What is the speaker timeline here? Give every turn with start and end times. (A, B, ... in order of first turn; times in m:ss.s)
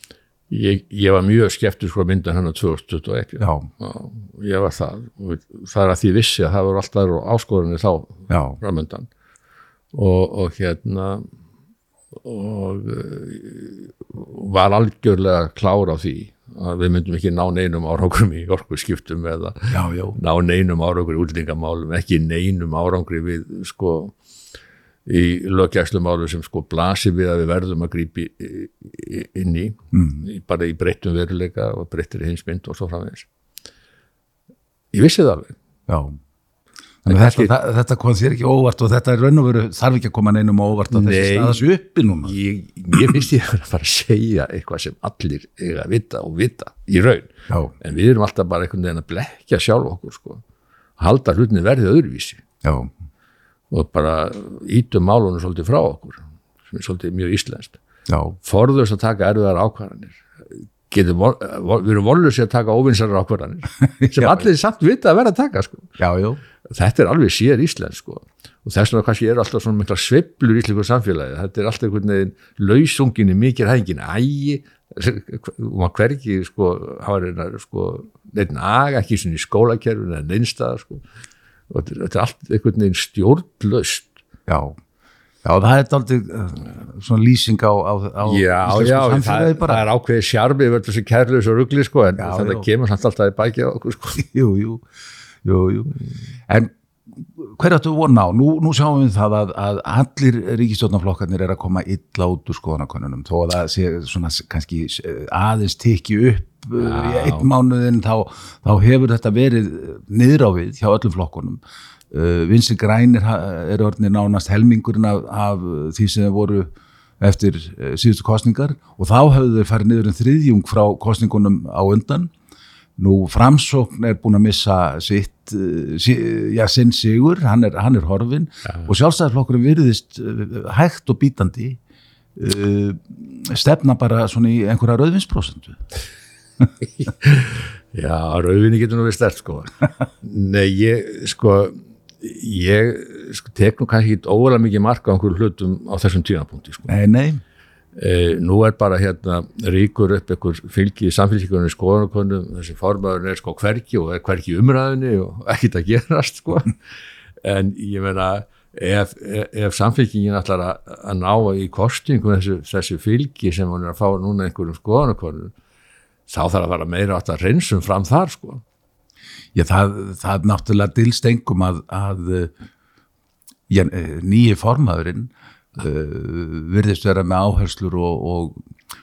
0:00.5-0:09.1 A
0:03.4-0:03.7 B
0:08.3-0:08.6 B
0:09.9-0:11.3 A
0:12.2-0:24.2 A
0:19.7-0:20.2 B
0:25.1-0:33.3 A
0:29.9-0:30.3 B
0:34.9-0:35.6 A
0:35.9-0:36.2 B
0:37.0-0:42.3 B
0:37.1-0:37.5 A
0:40.9-0:41.6 A
0:42.2-0:47.3 A
0:47.8-0:50.4 A
0:51.0-0:52.4 A
0:52.6-0:52.9 B
0:53.7-0:57.8 A
0:58.1-0:58.4 B
0:58.4-1:00.2 A
1:00.9-1:05.9 A
1:04.0-1:04.5 B
1:06.0-1:06.4 B
1:06.7-1:21.0 A
1:21.7-1:24.2 A
1:24.5-1:24.8 B
1:25.4-1:29.8 B
1:28.2-1:34.2 A
1:32.2-1:32.7 B
1:34.2-1:34.8 B
1:35.4-1:35.9 B
1:36.5-2:02.3 B
1:46.8-1:47.5 A
2:03.0-2:11.8 B
2:12.4-2:15.8 B
2:17.0-2:19.7 A
2:20.2-2:26.9 A
2:26.9-2:27.4 B
2:28.0-2:36.7 A
2:37.4-2:45.5 A
2:46.3-2:48.6 A
2:49.6-2:52.5 B
2:53.7-2:58.6 B